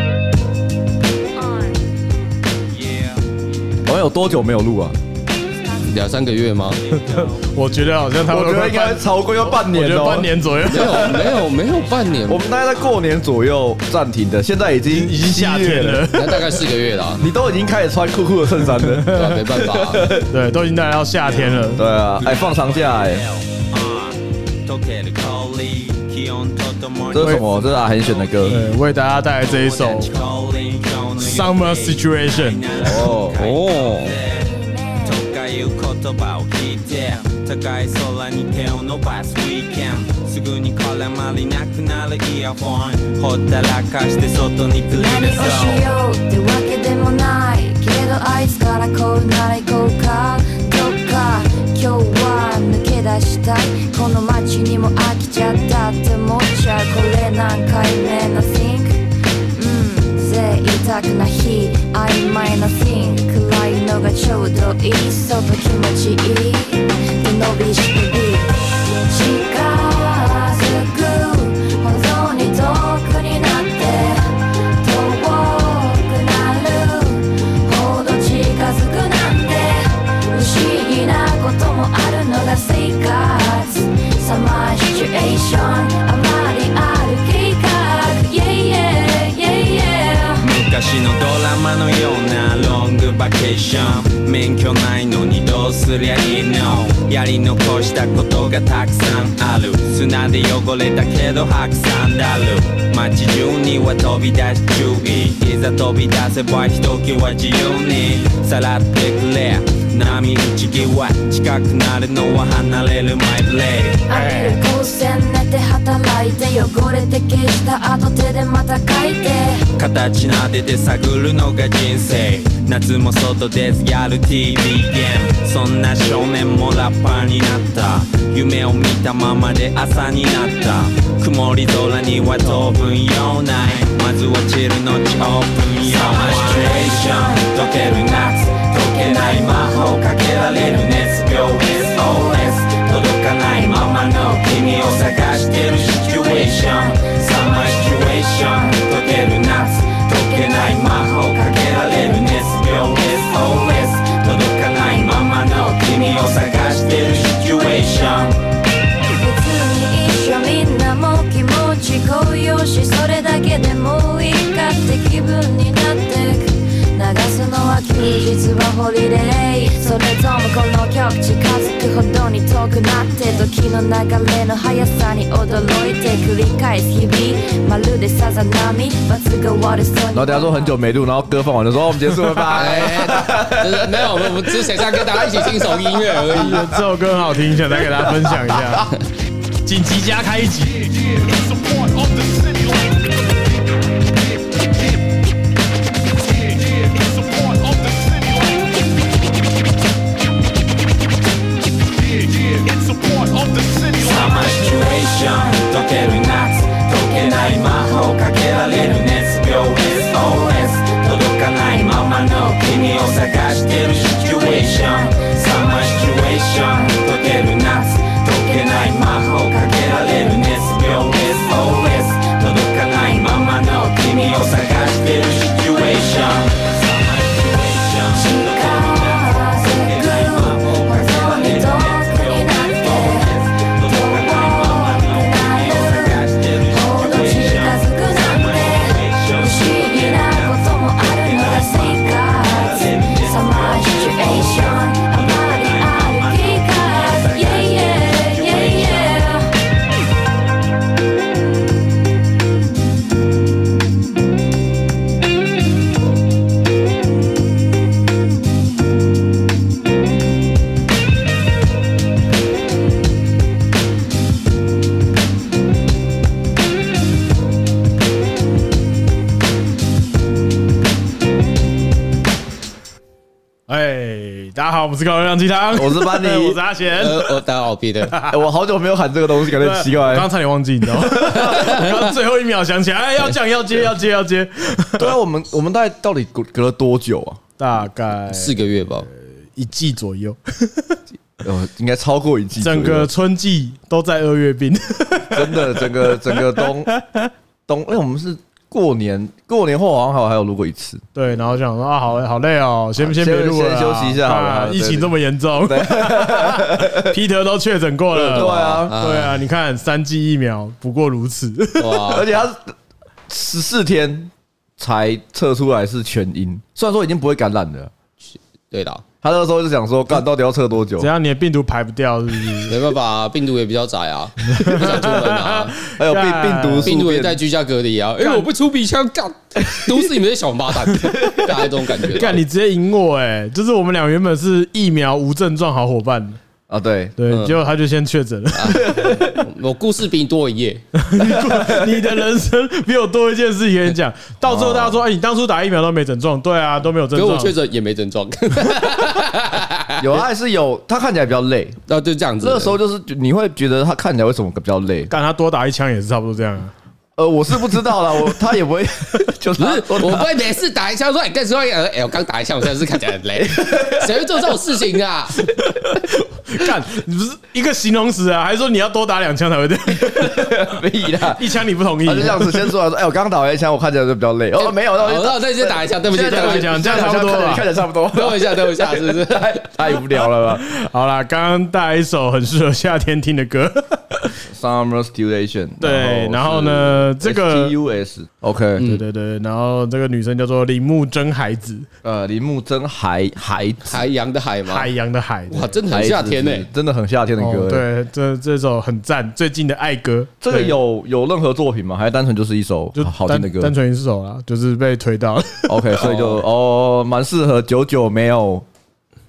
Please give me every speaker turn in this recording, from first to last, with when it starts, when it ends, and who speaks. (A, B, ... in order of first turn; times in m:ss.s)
0:02.7-0:03.2 A
0:03.8-0:04.9 B
0:05.8-0:06.8 C
0:06.7-0:07.5 A
0:06.9-0:11.1 D
0:08.3-0:11.3 B
0:10.6-0:12.4 C
0:11.8-0:12.1 A
0:12.3-0:16.1 B
0:14.9-0:16.5 D
0:16.1-0:17.2 C
0:17.2-0:20.3 B
0:18.8-0:19.3 D
0:19.1-0:20.1 C
0:20.3-0:21.8 D
0:21.2-0:28.8 A
0:21.8-0:23.2 B
0:27.1-0:28.6 B
0:27.2-0:27.4 D
0:28.5-0:30.1 D
0:29.4-0:34.5 A
0:31.2-0:32.9 D
0:32.8-0:34.2 B
0:35.0-0:45.9 A
0:44.9-1:30.4 E
1:30.4-1:54.1 A
1:54.1-1:59.7 E
1:54.2-1:54.5 D
1:59.8-2:38.4 A
2:16.2-2:17.1 E
2:39.1-3:00.7 E
3:00.1-3:06.6 B
3:02.5-3:06.6 C
3:06.3-3:08.9 D
3:09.6-3:10.9 D
3:23.5-4:09.4 A
3:48.1-4:09.5 E
4:33.7-4:37.4 D
4:35.7-4:36.6 B
4:37.0-4:38.2 C
4:38.1-4:38.4 D
4:38.3-4:40.3 B
4:39.5-4:45.1 D
4:45.0-4:47.4 B
4:47.6-4:48.6 D
4:48.3-4:49.1 C
4:49.5-4:51.0 D
4:51.4-4:53.1 B
4:52.6-4:57.3 D
4:55.3-4:56.9 B
4:57.7-5:01.0 B
5:01.1-5:12.0 D
5:03.0-5:05.1 B
5:05.6-5:07.1 B
5:08.2-5:09.0 B
5:08.2-5:09.4 C
5:11.8-5:12.2 C
5:12.0-5:12.7 B
5:13.3-5:17.9 B
5:18.7-5:19.0 C
5:19.2-5:21.1 B
5:21.0-5:22.8 D
5:22.7-5:25.8 C
5:24.4-5:26.9 D
5:25.9-5:27.4 B
5:26.8-5:32.4 C
5:28.2-5:28.5 D
5:31.1-5:31.5 B
5:32.1-5:36.4 D
5:36.7-5:37.2 B
5:37.2-5:38.9 D
5:37.3-5:37.6 C
5:38.5-5:40.8 C
5:38.9-5:39.3 B
5:40.9-5:47.5 D
5:41.2-5:42.1 B
5:44.4-5:45.0 B
5:47.1-5:50.2 C
5:50.0-5:51.8 B
5:51.9-5:52.8 C
5:52.4-5:55.1 B
5:55.1-5:56.7 D
5:57.2-6:00.3 B
5:59.6-6:05.4 C
6:03.4-6:04.2 B
6:05.4-6:10.6 D
6:10.1-6:20.6 B
6:11.3-6:12.7 D
6:14.6-6:17.1 C
6:16.2-6:17.6 D
6:18.1-6:19.8 C
6:20.6-6:24.4 D
6:24.5-6:28.9 B
6:25.8-6:27.7 D
6:28.8-6:31.9 D
6:32.0-6:34.0 B
6:33.8-6:34.9 C
6:34.7-6:35.8 D
6:35.5-6:36.7 C
6:35.9-6:37.8 B
6:37.4-6:40.8 D
6:40.4-6:43.7 B
6:42.9-6:46.0 D
6:45.7-6:48.6 B
6:46.0-6:46.4 C